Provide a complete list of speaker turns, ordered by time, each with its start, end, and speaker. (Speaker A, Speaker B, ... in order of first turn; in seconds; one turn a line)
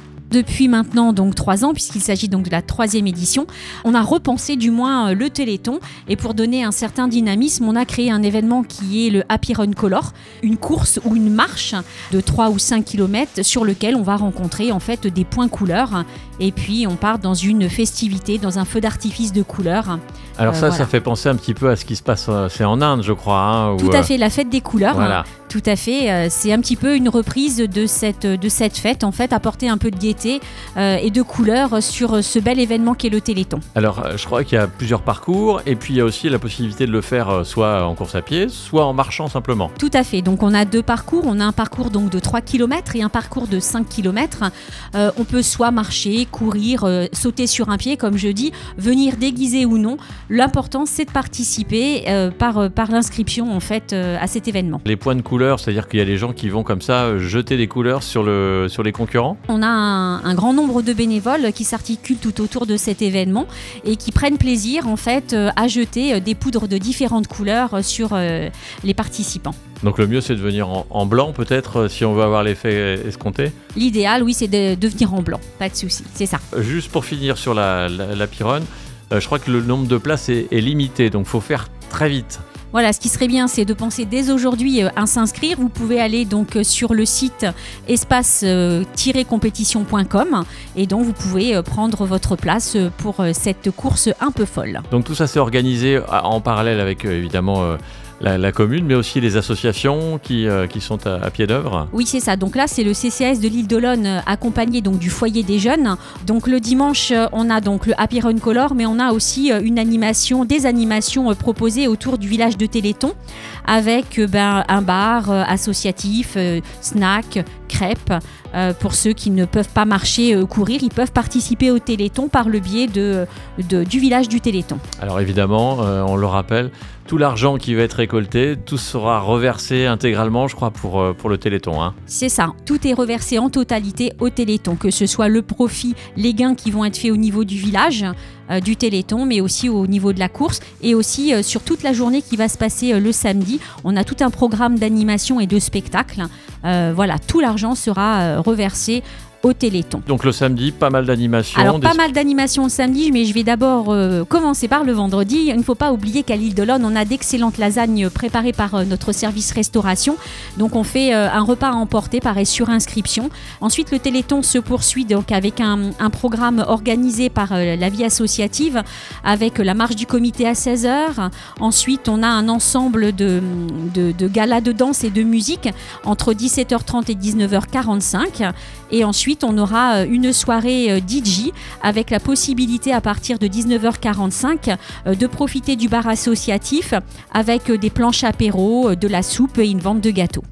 Speaker A: 0.3-20.9
Speaker B: 20.4-24.1
Speaker A: 23.8-33.6
Speaker B: 24.9-25.2
Speaker B: 33.8-39.7
Speaker A: 39.8-54.8
Speaker B: 54.9-59.4
Speaker A: 59.5-69.6
Speaker B: 69.8-73.5
Speaker A: 73.8-76.4
Speaker B: 76.5-82.4
Speaker A: 82.7-94.8
Speaker B: 94.9-101.9
Speaker A: 101.9-124.8
Speaker B: 125.0-131.9
Speaker A: 132.1-150.0
Speaker B: 150.1-152.0
Speaker A: 151.6-190.4